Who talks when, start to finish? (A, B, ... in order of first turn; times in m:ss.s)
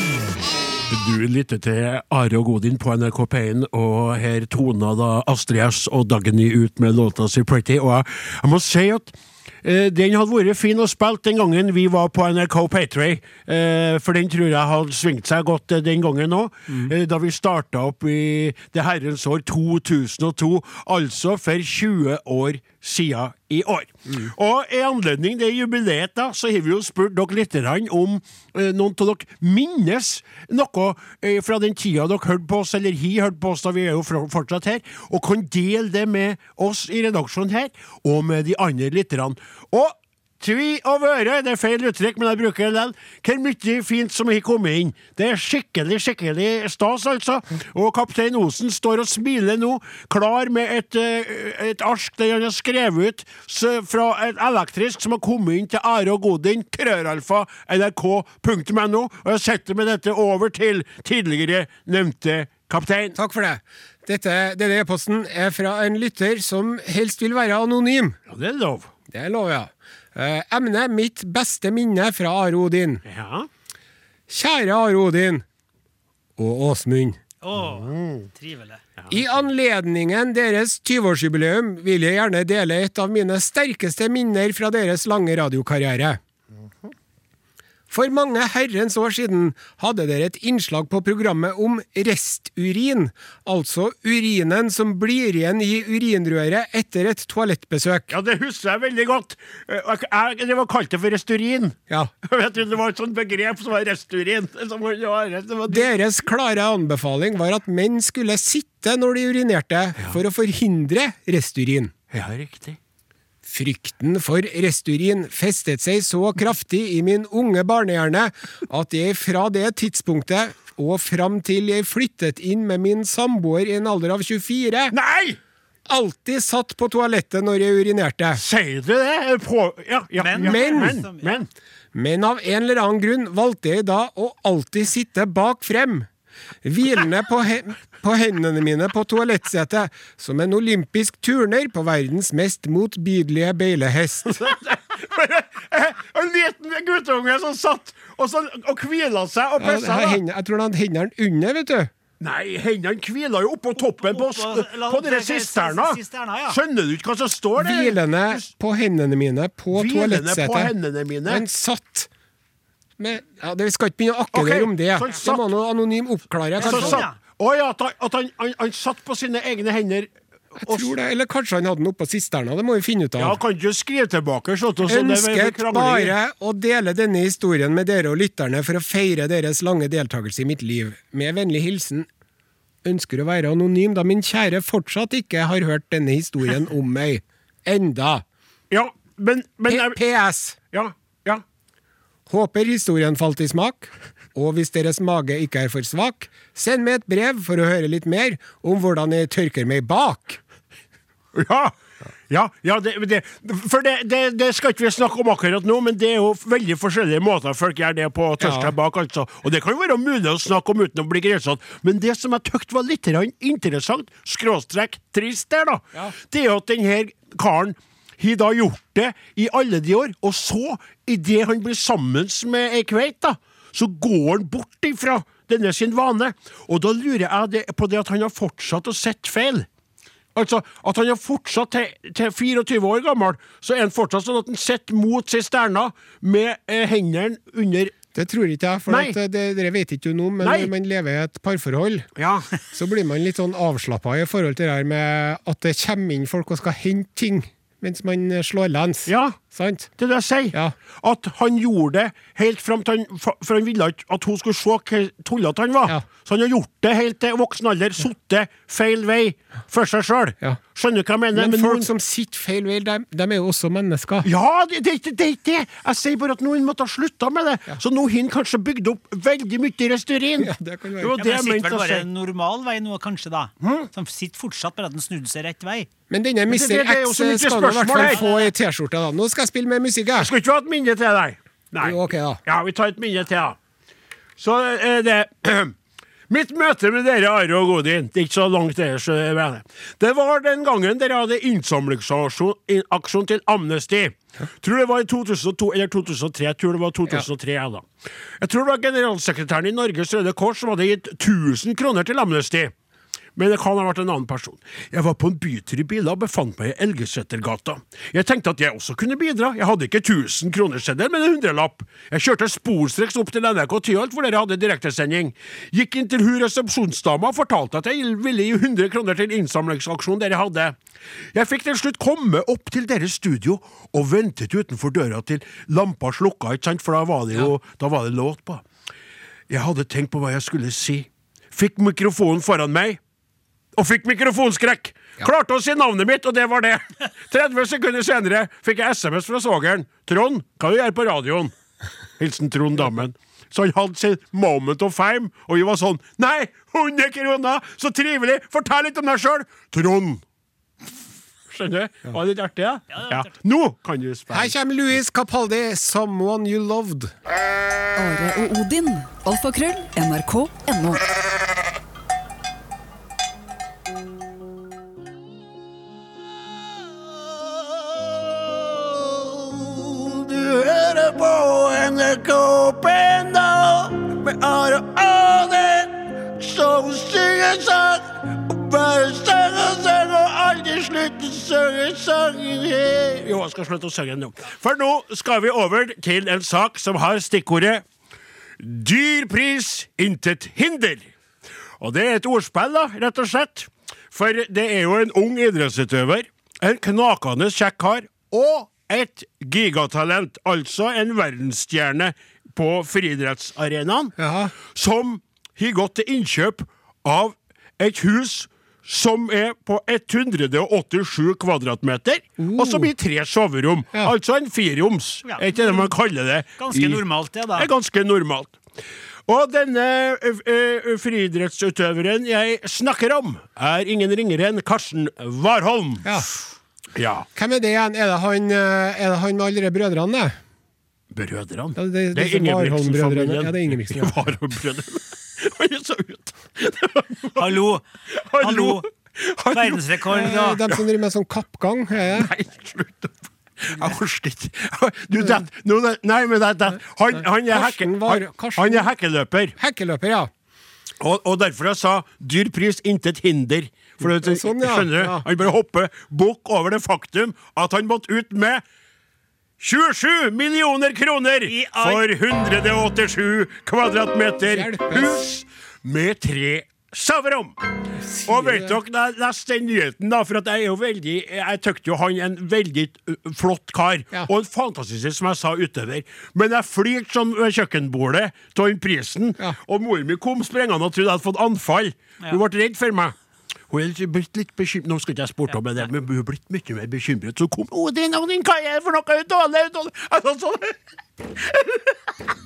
0:00.9-1:03.2 A
1:03.2-1:08.2 B
1:08.3-1:08.9 A
1:09.1-1:13.0 B
1:13.0-1:13.5 A
1:14.3-1:15.4 B
1:16.4-1:17.2 B
1:17.4-1:18.8 C
1:17.8-1:18.1 A
1:19.1-1:26.2 B
1:27.9-1:38.1 B
1:38.1-1:45.9 A
1:45.7-1:51.9 B
1:52.1-1:52.8 A
1:53.5-2:05.0 B
2:04.9-2:05.4 A
2:05.9-2:08.4 B
2:08.3-2:11.5 A
2:10.2-2:11.3 C
2:10.4-2:11.0 B
2:11.9-2:16.1 B
2:16.6-2:24.4 B
2:24.3-2:30.2 A
2:29.6-2:31.9 B
2:32.2-2:38.5 A
2:34.0-2:36.6 C
2:37.6-2:40.7 B
2:39.7-2:41.4 A
2:41.3-2:42.1 B
2:43.0-2:47.1 B
2:44.3-2:45.5 A
2:46.6-2:50.1 A
2:46.6-2:47.2 C
2:50.6-2:53.4 B
2:50.6-2:51.0 A
2:53.2-2:56.2 A
2:54.9-3:02.1 B
3:02.8-3:08.2 B
3:08.7-3:10.0 A
3:09.7-3:10.6 B
3:10.7-3:11.4 A
3:12.3-3:20.4 B
3:21.3-3:21.7 A
3:22.3-3:49.7 A
3:28.4-3:28.7 B
3:50.4-3:57.9 A
3:58.1-4:02.1 B
3:58.9-3:59.2 A
4:00.4-4:00.7 A
4:02.2-4:02.5 A
4:02.7-4:09.9 B
4:09.1-4:09.4 A
4:10.0-4:21.9 A
4:21.3-4:24.3 B
4:24.2-4:32.1 A
4:30.4-4:31.2 B
4:31.2-4:35.9 C
4:33.6-4:33.9 A
4:36.1-4:40.3 B
4:36.5-4:38.2 A
4:37.9-4:38.5 C
4:40.2-4:43.6 A
4:41.8-4:42.4 B
4:44.4-4:45.8 A
4:46.3-4:57.9 A
4:58.4-5:02.7 A
5:03.4-5:20.8 A
5:21.3-5:28.6 A
5:29.5-5:33.0 A
5:33.8-5:41.5 A
5:42.2-5:50.2 A
5:51.5-5:54.6 A
5:52.9-5:53.2 C
5:54.3-5:57.1 B
5:58.0-6:01.1 D
6:07.3-6:27.8 A
6:28.6-6:31.1 A
6:31.8-6:57.0 A
6:44.2-6:44.5 B
6:52.4-6:52.9 B
6:55.3-6:55.8 C
6:56.6-6:57.7 C
6:57.6-6:58.6 A
6:59.3-7:06.1 A
7:07.0-7:07.3 A
7:07.4-7:10.4 B
7:11.1-7:20.0 A
7:11.8-7:14.2 B
7:17.4-7:17.8 C
7:18.4-7:18.9 C
7:19.5-7:20.6 C
7:20.1-7:22.3 B
7:22.0-7:29.6 A
7:27.2-7:28.9 B
7:29.6-7:30.3 B
7:31.0-7:38.6 A
7:34.0-7:35.3 B
7:39.6-7:47.5 A
7:41.5-7:42.0 C
7:44.4-7:45.2 B
7:48.0-7:48.8 B
7:48.3-8:03.2 A
8:03.7-8:12.2 A